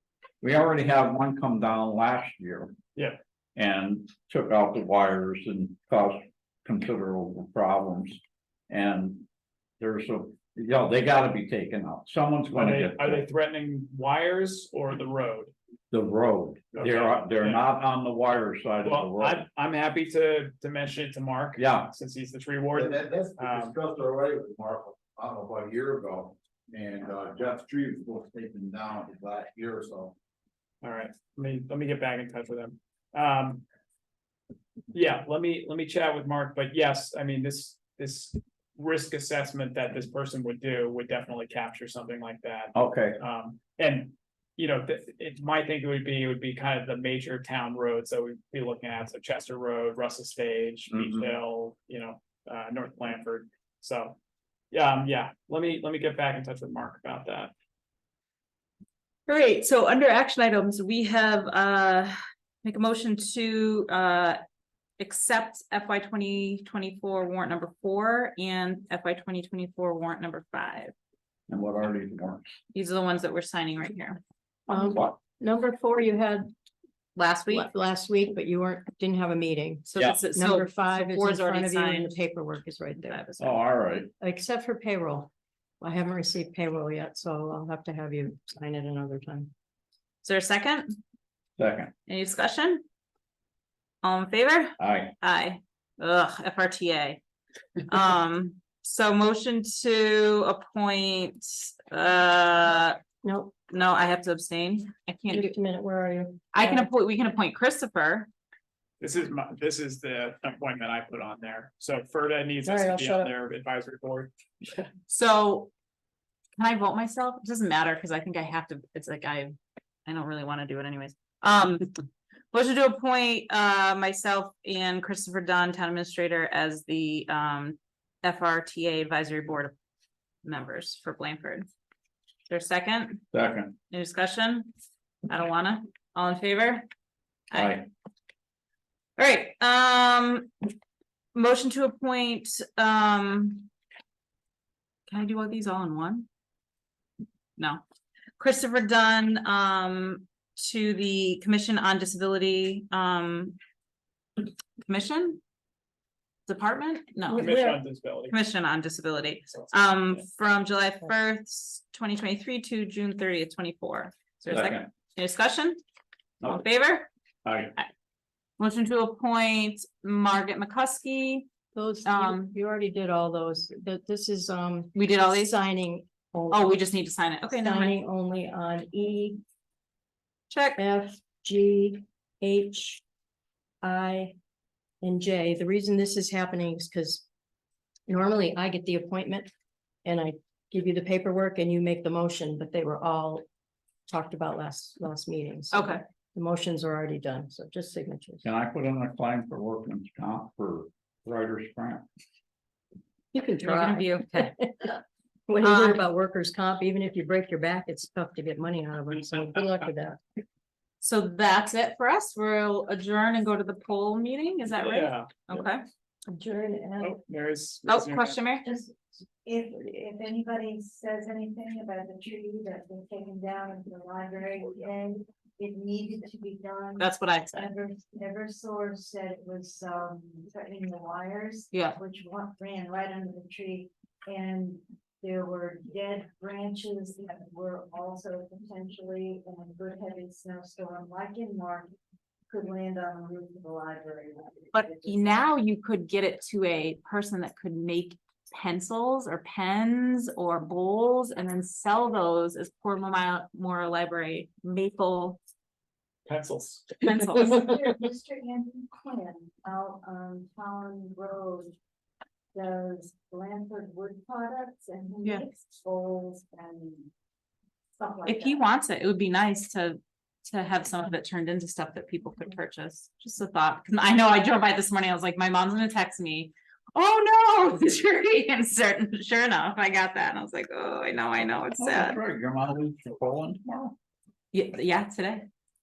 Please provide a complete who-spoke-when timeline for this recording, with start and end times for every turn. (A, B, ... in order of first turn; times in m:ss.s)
0:00.4-0:02.8 A
0:03.6-0:09.3 A
0:09.8-0:13.2 A
0:12.5-0:15.5 B
0:15.9-0:19.4 A
0:16.7-0:17.6 B
0:18.8-0:23.8 B
0:21.6-0:21.9 A
0:22.8-0:30.1 C
0:30.8-0:33.6 B
0:34.9-0:54.2 B
0:42.7-0:43.2 A
0:50.9-0:51.3 A
0:54.7-0:57.5 B
0:59.3-1:04.4 D
1:05.0-1:10.9 D
1:11.5-1:12.4 A
1:12.7-1:14.2 D
1:14.7-1:16.5 E
1:14.7-1:15.1 A
1:17.2-1:17.7 D
1:17.5-1:23.2 E
1:19.9-1:22.2 D
1:23.0-1:23.6 D
1:23.4-1:24.1 A
1:24.2-1:29.5 E
1:30.2-1:31.0 D
1:31.6-1:31.9 A
1:32.1-1:32.8 D
1:34.0-1:37.2 D
1:34.8-1:35.1 A
1:37.9-1:43.0 D
1:43.2-1:43.5 E
1:43.7-1:45.5 D
1:45.3-1:46.9 E
1:46.5-1:48.3 D
1:49.0-1:54.9 B
1:52.6-1:53.3 E
1:55.1-1:55.7 D
1:56.6-2:01.9 D
2:02.5-2:09.7 D
2:10.4-2:11.7 D
2:12.5-2:13.2 D
2:13.3-2:13.8 A
2:13.9-2:14.7 D
2:15.3-2:16.9 D
2:17.5-2:17.8 D
2:17.5-2:17.9 A
2:19.2-2:20.5 D
2:21.3-2:23.7 D
2:25.1-2:26.3 D
2:28.4-2:33.6 D
2:34.8-2:35.4 D
2:36.5-2:37.6 D
2:37.3-2:37.8 E
2:37.3-2:38.4 B
2:38.3-2:45.8 D
2:39.5-2:40.2 B
2:44.5-2:44.9 A
2:46.4-2:47.1 D
2:47.4-2:47.7 A
2:48.6-2:51.5 D
2:51.7-2:56.8 E
2:52.0-2:52.5 D
2:54.9-2:55.6 D
2:56.5-2:57.9 D
2:57.5-2:59.4 E
3:00.5-3:00.8 D
3:00.8-3:03.0 E
3:03.8-3:04.3 E
3:05.0-3:07.2 E
3:08.1-3:09.5 E
3:10.0-3:13.4 E
3:14.1-3:18.5 E
3:15.7-3:16.0 D
3:18.4-3:22.1 A
3:23.3-3:30.2 E
3:23.6-3:24.5 D
3:25.6-3:26.1 D
3:31.0-3:35.8 D
3:34.8-3:35.7 B
3:36.3-3:37.2 E
3:37.0-3:38.4 B
3:37.8-3:38.6 D
3:38.6-4:01.9 F
3:47.0-3:47.7 D
3:51.7-3:52.0 D
4:02.5-4:05.4 F
4:04.7-4:15.4 D
4:16.2-4:17.7 B
4:17.0-4:17.6 D
4:17.5-4:21.8 F
4:22.5-4:27.1 F
4:28.0-4:28.6 F
4:28.2-4:42.2 D
4:41.7-4:44.0 A
4:44.5-4:45.5 D